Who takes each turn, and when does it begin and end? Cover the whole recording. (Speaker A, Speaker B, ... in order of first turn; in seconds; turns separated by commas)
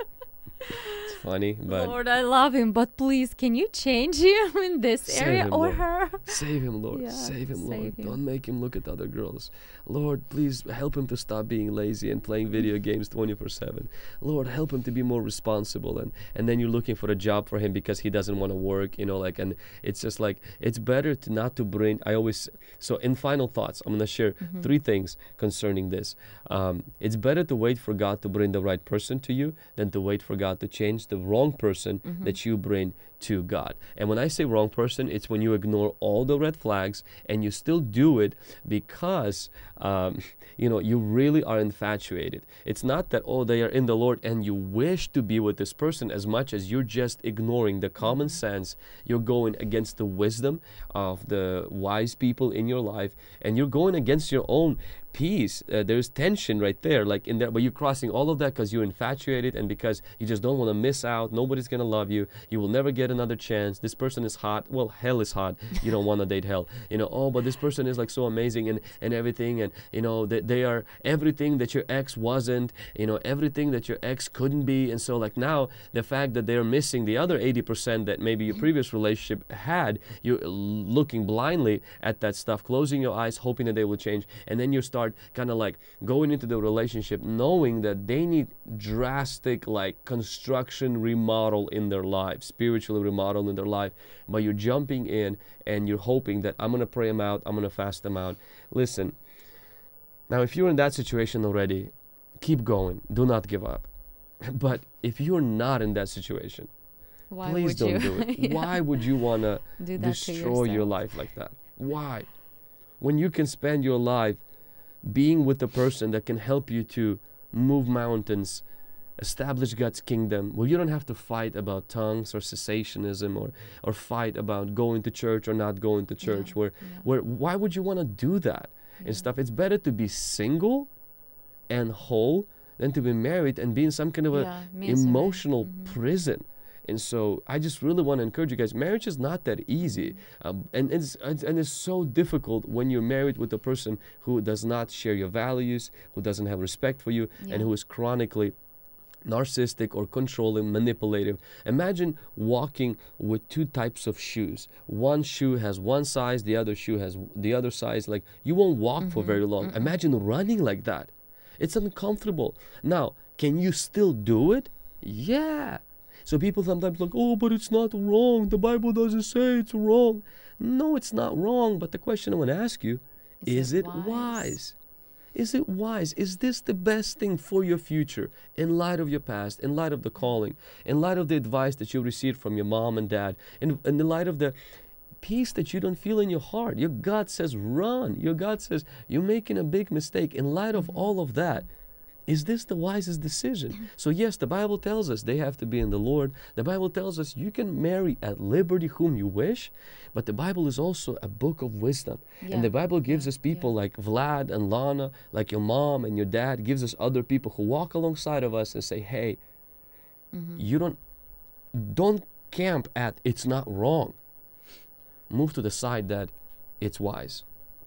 Speaker A: 0.6-1.0, Speaker B: 1.0-1.9, Speaker A: 1.7-6.4, Speaker B: 5.0-99.2, Speaker A: 6.9-8.2, Speaker A: 24.4-24.7, Speaker A: 32.0-32.4, Speaker A: 48.0-48.4, Speaker B: 100.3-103.9, Speaker B: 104.4-106.7, Speaker A: 107.3-109.0, Speaker B: 107.4-112.3, Speaker A: 109.8-111.0, Speaker B: 113.0-114.4, Speaker B: 115.0-118.6, Speaker B: 119.2-130.9, Speaker A: 126.2-127.1, Speaker A: 129.0-129.3, Speaker B: 131.7-148.5, Speaker A: 134.3-136.0, Speaker A: 139.8-140.2, Speaker A: 147.4-147.7, Speaker B: 149.2-174.8, Speaker A: 159.0-159.9, Speaker A: 173.4-174.6, Speaker B: 175.3-184.5, Speaker B: 185.2-191.7, Speaker A: 190.7-191.1, Speaker B: 192.3-209.4, Speaker A: 202.4-203.7, Speaker A: 210.3-210.6, Speaker B: 210.6-211.0, Speaker B: 211.7-214.2, Speaker B: 215.3-217.4